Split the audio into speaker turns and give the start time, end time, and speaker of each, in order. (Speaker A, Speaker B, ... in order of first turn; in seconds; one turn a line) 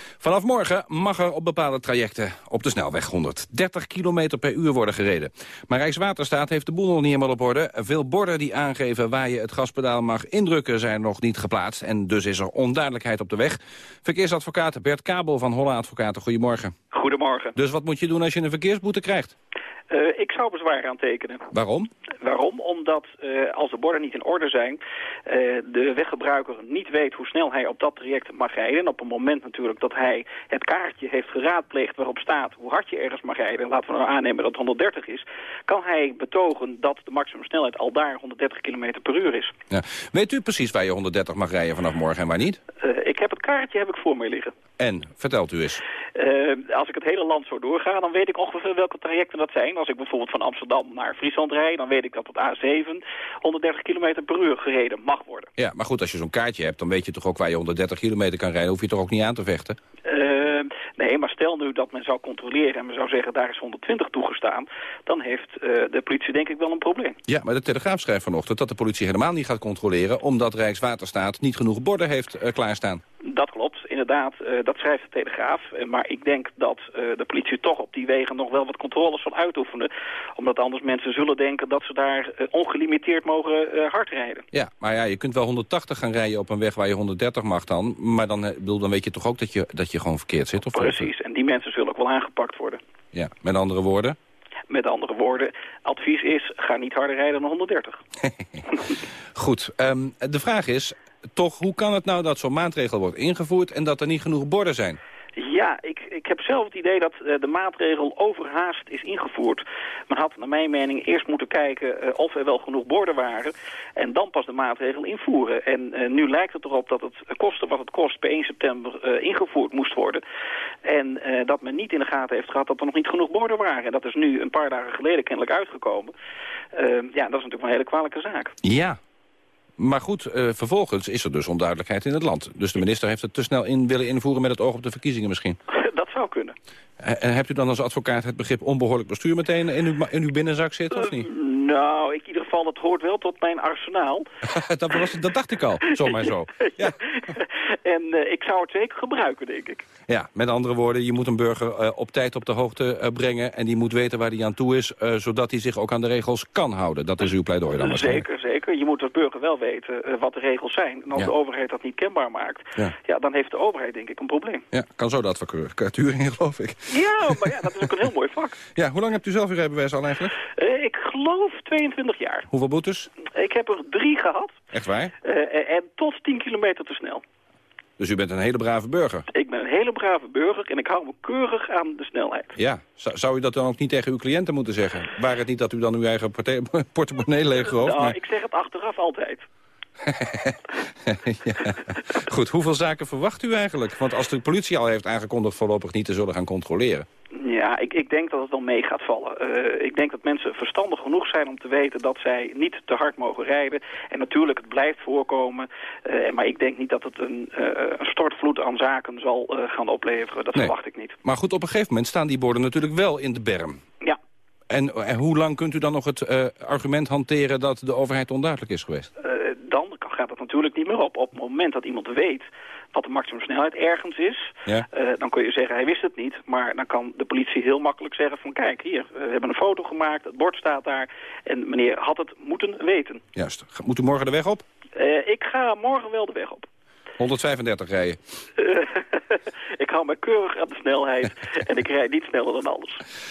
Speaker A: 0.2-16.7
Speaker B: 16.9-17.6
Speaker A: 17.6-19.3
Speaker B: 19.9-21.5
Speaker A: 21.5-21.9
Speaker B: 22.2-39.5
Speaker A: 39.7-42.6
Speaker B: 42.8-44.5
Speaker A: 44.8-45.8
Speaker B: 46.1-55.5
Speaker A: 55.6-59.8
Speaker B: 60.0-67.2
Speaker A: 67.3-73.0
Speaker B: 73.2-84.5
Speaker A: 84.5-91.1
Speaker B: 90.7-92.8
Speaker A: 93.1-94.2
Speaker B: 94.7-98.0
Speaker A: 99.3-105.0
Speaker B: 105.3-120.2
Speaker B: 120.8-126.1
Speaker B: 126.7-128.6
Speaker A: 128.6-129.0
Speaker A: 129.8-135.6
Speaker B: 135.7-136.6
Speaker A: 137.0-141.3
Speaker B: 140.9-144.3
Speaker A: 144.4-147.0
Speaker B: 145.9-149.8
Speaker A: 150.1-158.2
Speaker B: 157.8-164.7
Speaker A: 164.7-167.4
Speaker B: 166.9-168.6
Speaker A: 168.7-170.4
Speaker B: 170.5-172.5
Speaker A: 172.5-173.1
Speaker B: 173.2-174.6
Speaker A: 174.7-175.1
Speaker B: 175.2-177.2
Speaker A: 178.0-179.3
Speaker B: 179.3-182.6
Speaker A: 182.6-188.2
Speaker B: 187.6-189.4
Speaker A: 190.0-197.1
Speaker B: 197.3-211.2
Speaker A: 210.5-213.8
Speaker A: 214.7-219.1
Speaker B: 219.2-233.2
Speaker A: 233.3-234.6
Speaker B: 234.9-236.7
Speaker A: 237.2-238.2
Speaker B: 238.6-243.0